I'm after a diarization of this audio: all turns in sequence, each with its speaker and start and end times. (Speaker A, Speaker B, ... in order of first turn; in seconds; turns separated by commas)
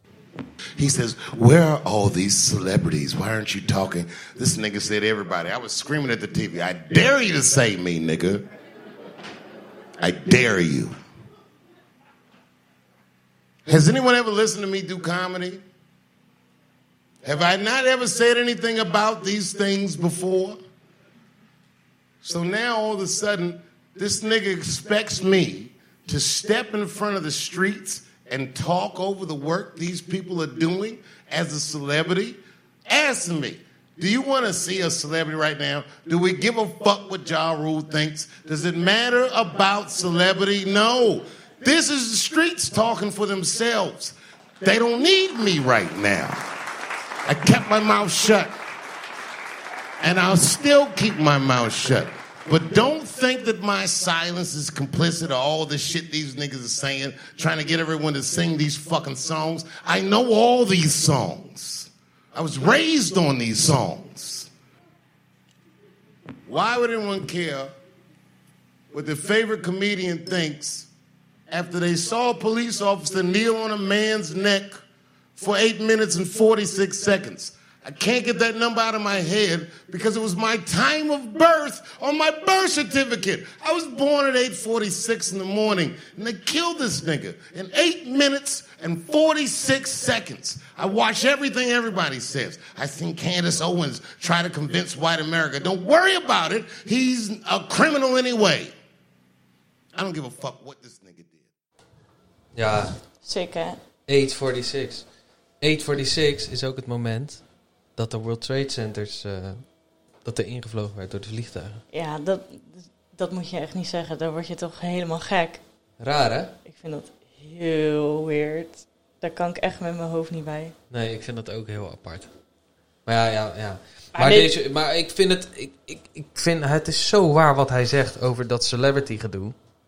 Speaker A: 0.8-8.4, Speaker A: 10.0-10.9, Speaker A: 13.7-15.6, Speaker A: 17.2-20.6, Speaker A: 22.2-46.4, Speaker A: 47.3-48.5, Speaker A: 50.0-64.5, Speaker A: 66.5-67.7, Speaker A: 68.9-70.9, Speaker A: 71.5-74.8, Speaker A: 75.4-98.7, Speaker A: 100.0-101.5, Speaker B: 102.5-103.0, Speaker C: 103.2-103.8, Speaker B: 104.1-105.1, Speaker B: 105.6-107.4, Speaker B: 108.0-109.6, Speaker B: 110.2-111.8, Speaker C: 111.9-115.6, Speaker B: 116.0-116.6, Speaker C: 116.7-120.7, Speaker B: 120.9-122.3, Speaker B: 123.1-129.6, Speaker C: 124.1-124.5